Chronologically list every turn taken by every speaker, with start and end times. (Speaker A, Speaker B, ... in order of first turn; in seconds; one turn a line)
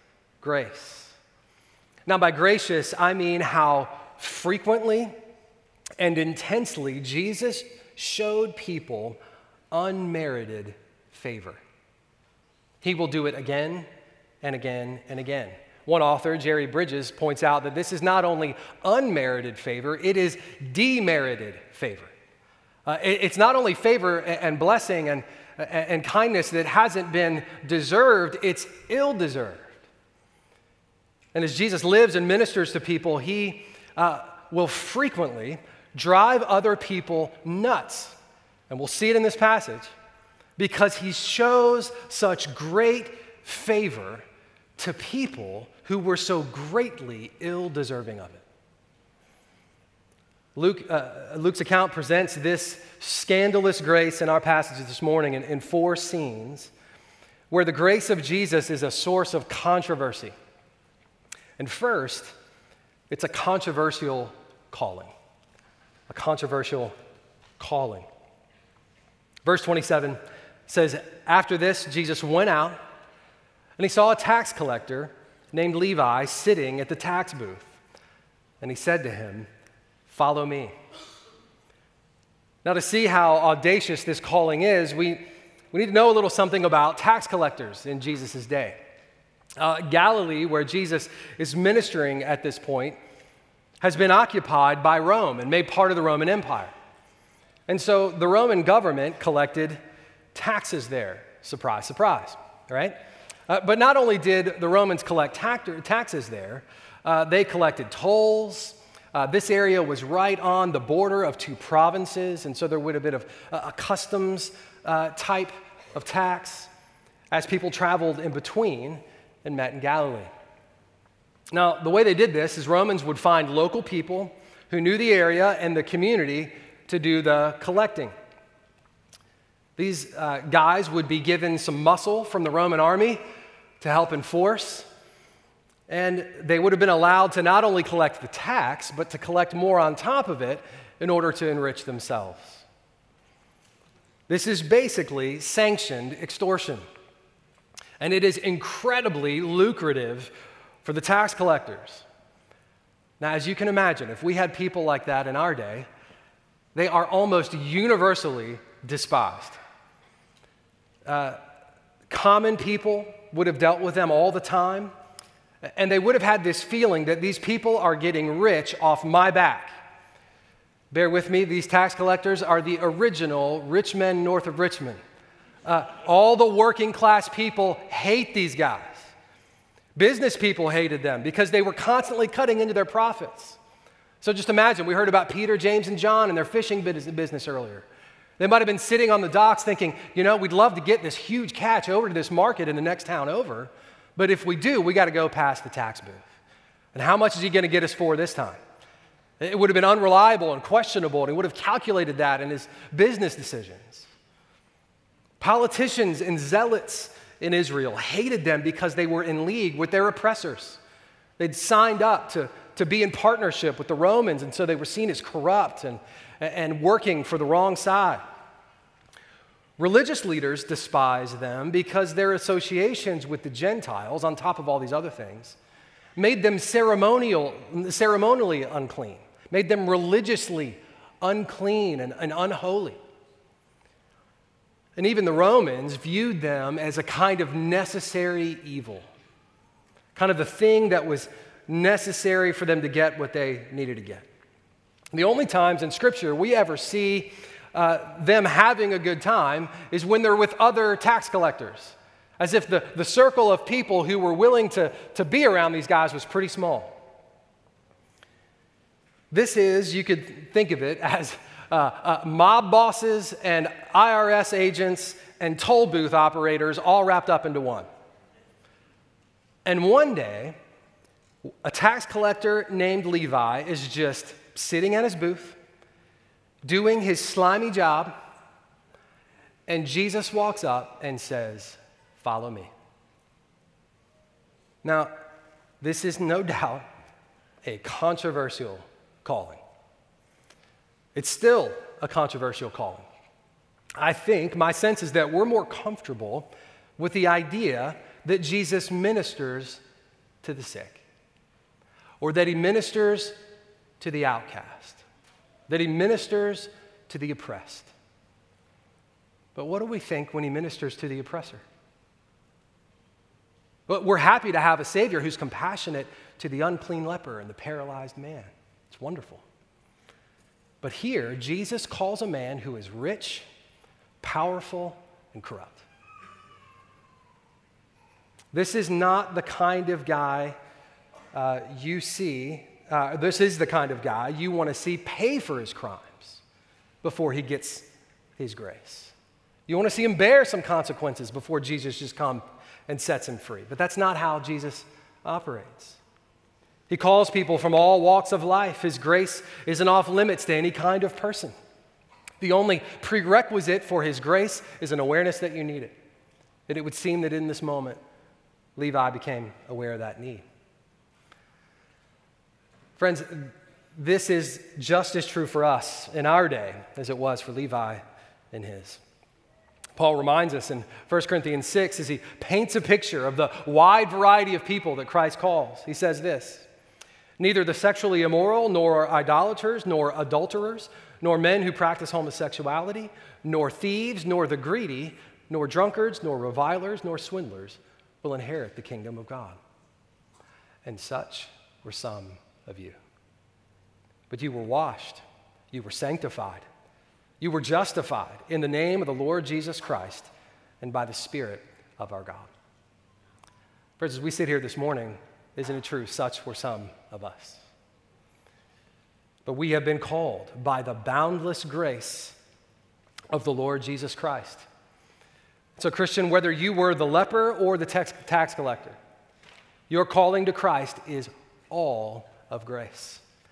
Speaker A: 0.4-1.2
Speaker A: 2.1-5.1
Speaker A: 6.0-9.2
Speaker A: 9.7-11.6
Speaker A: 12.8-13.9
Speaker A: 14.4-22.1
Speaker A: 22.9-29.7
Speaker A: 31.3-38.2
Speaker A: 38.7-39.9
Speaker A: 40.6-44.2
Speaker A: 44.8-48.5
Speaker A: 50.6-56.7
Speaker A: 57.5-60.3
Speaker A: 61.6-62.4
Speaker A: 63.1-65.1
Speaker A: 66.1-66.9
Speaker A: 67.6-68.1
Speaker A: 69.5-72.8
Speaker A: 73.8-77.8
Speaker A: 78.6-79.5
Speaker A: 80.1-80.7
Speaker A: 82.6-88.8
Speaker A: 89.6-93.0
Speaker A: 93.8-96.7
Speaker A: 97.7-99.8
Speaker A: 100.3-103.0
Speaker A: 103.5-116.7
Speaker A: 117.3-120.3
Speaker A: 121.5-128.1
Speaker A: 129.8-133.2
Speaker A: 133.8-134.9
Speaker A: 135.9-142.7
Speaker A: 144.3-146.8
Speaker A: 148.0-150.3
Speaker A: 150.8-152.1
Speaker A: 153.2-155.9
Speaker A: 156.8-159.6
Speaker A: 161.1-161.4
Speaker A: 162.1-164.9
Speaker A: 165.7-169.8
Speaker A: 170.9-175.0
Speaker A: 175.7-179.1
Speaker A: 180.0-183.6
Speaker A: 184.2-187.9
Speaker A: 188.4-196.2
Speaker A: 196.9-198.6
Speaker A: 199.4-204.1
Speaker A: 205.4-210.8
Speaker A: 211.4-218.2
Speaker A: 219.8-225.6
Speaker A: 226.2-233.0
Speaker A: 235.0-239.1
Speaker A: 240.2-244.3
Speaker A: 245.1-257.0
Speaker A: 259.3-267.9
Speaker A: 269.6-270.6
Speaker A: 271.6-275.6
Speaker A: 276.6-278.1
Speaker A: 279.7-282.7
Speaker A: 284.8-285.1
Speaker A: 285.8-286.9
Speaker A: 287.6-289.6
Speaker A: 291.1-293.1
Speaker A: 294.0-299.8
Speaker A: 300.4-301.0
Speaker A: 302.2-303.4
Speaker A: 304.0-305.1
Speaker A: 305.7-307.9
Speaker A: 309.6-311.6
Speaker A: 313.9-319.4
Speaker A: 320.8-323.5
Speaker A: 324.2-325.9
Speaker A: 328.5-330.6
Speaker A: 331.3-336.4
Speaker A: 337.0-339.1
Speaker A: 339.7-346.0
Speaker A: 346.9-351.6
Speaker A: 352.4-355.9
Speaker A: 356.7-358.0
Speaker A: 358.8-360.4
Speaker A: 363.0-369.0
Speaker A: 370.0-376.7
Speaker A: 377.4-389.6
Speaker A: 390.9-393.0
Speaker A: 394.3-396.7
Speaker A: 397.4-400.3
Speaker A: 400.8-402.5
Speaker A: 404.0-407.6
Speaker A: 409.4-412.4
Speaker A: 413.3-414.7
Speaker A: 415.8-419.0
Speaker A: 419.9-423.2